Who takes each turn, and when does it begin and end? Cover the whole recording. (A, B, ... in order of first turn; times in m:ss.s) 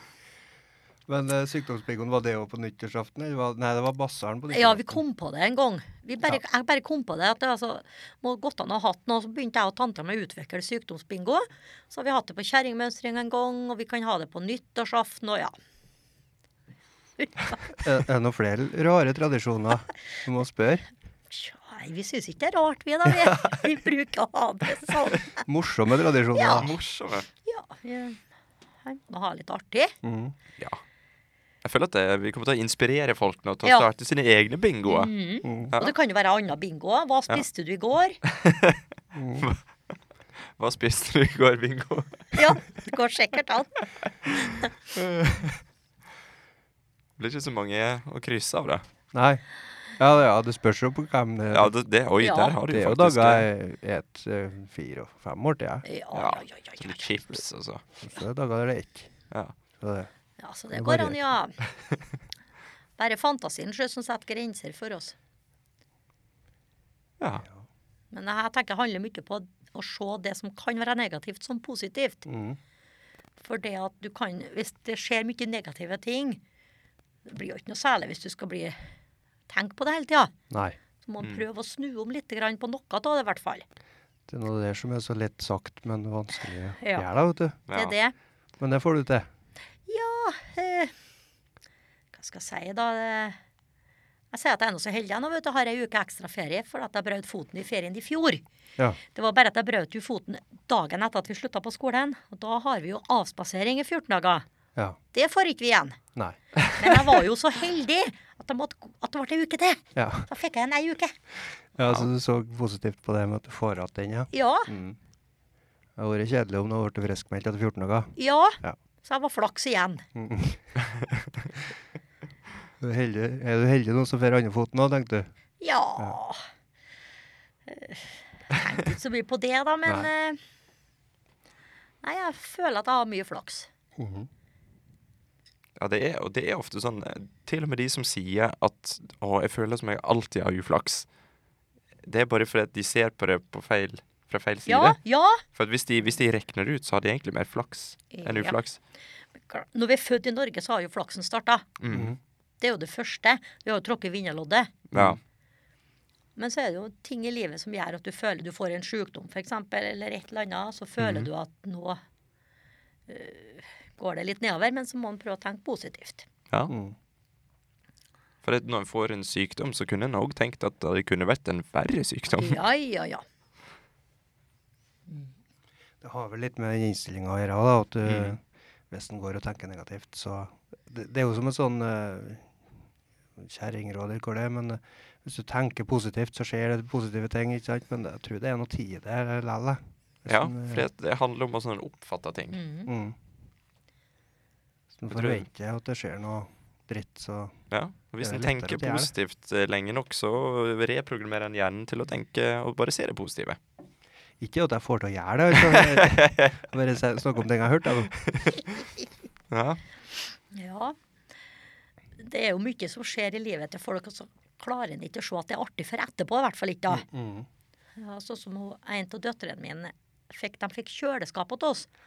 0:01.1-0:05.0 A
0:04.5-0:15.5 B
0:17.2-0:17.6 B
0:17.8-0:20.8 A
0:21.3-0:25.4 B
0:23.2-0:23.6 A
0:25.4-0:26.7 A
0:26.3-0:26.7 B
0:26.6-0:27.2 C
0:27.4-0:28.2 B
0:28.8-0:29.9 B
0:30.0-0:30.3 A
0:31.6-0:35.1 C
0:34.8-0:38.2 B
0:35.4-0:35.7 A
0:38.2-0:38.8 C
0:39.1-0:39.4 A
0:39.4-0:39.9 C
0:40.6-0:42.5 C
0:42.3-0:43.7 B
0:44.2-0:45.6 C
0:47.2-0:48.8 C
0:49.1-0:49.4 A
0:50.0-0:51.7 A
0:51.5-0:53.4 C
0:52.2-0:52.6 B
0:52.7-0:55.8 A
0:55.8-0:57.1 B
0:56.1-0:57.8 C
0:58.0-0:59.1 A
0:59.7-1:00.1 A
1:00.4-1:01.6 B
1:00.7-1:01.2 A
1:03.0-1:05.1 B
1:08.1-1:12.2 B
1:12.2-1:12.6 A
1:13.4-1:16.4 B
1:17.3-1:18.8 B
1:19.5-1:20.3 B
1:20.5-1:20.8 A
1:21.0-1:23.6 B
1:24.3-1:27.6 A
1:26.8-1:27.1 B
1:27.7-1:27.9 C
1:27.7-1:28.1 B
1:28.6-1:29.3 A
1:29.9-1:30.9 B
1:32.1-1:33.4 B
1:34.3-1:38.4 B
1:39.1-1:44.4 B
1:45.1-1:46.0 B
1:46.7-1:51.2 B
1:50.0-1:50.3 A
1:51.7-1:55.0 A
1:54.3-1:54.7 B
1:56.0-1:58.8 A
1:58.2-2:00.0 B
2:00.1-2:00.7 A
2:02.8-2:05.2 A
2:05.6-2:06.4 B
2:07.7-2:10.4 B
2:12.0-2:13.7 B
2:14.0-2:14.3 A
2:15.8-2:21.0 C
2:22.0-2:28.8 C
2:24.7-2:25.4 B
2:28.1-2:28.6 B
2:29.5-2:31.7 B
2:31.8-2:32.1 C
2:31.9-2:32.2 A
2:32.6-2:34.7 B
2:34.9-2:35.2 C
2:36.4-2:42.0 B
2:41.0-2:41.3 C
2:43.1-2:46.3 B
2:46.7-2:46.9 A
2:48.4-2:52.6 C
2:52.4-2:53.2 B
2:56.0-3:02.5 A
2:58.1-2:58.3 C
3:03.4-3:10.9 A
3:10.3-3:12.6 C
3:12.5-3:12.9 B
3:12.9-3:13.2 A
3:15.0-3:17.6 A
3:15.1-3:15.4 C
3:17.7-3:23.6 C
3:18.2-3:19.1 A
3:24.4-3:28.6 A
3:25.7-3:26.5 C
3:29.5-3:29.8 C
3:30.5-3:31.0 B
3:32.2-3:37.0 B
3:36.9-3:37.5 A
3:38.0-3:41.9 B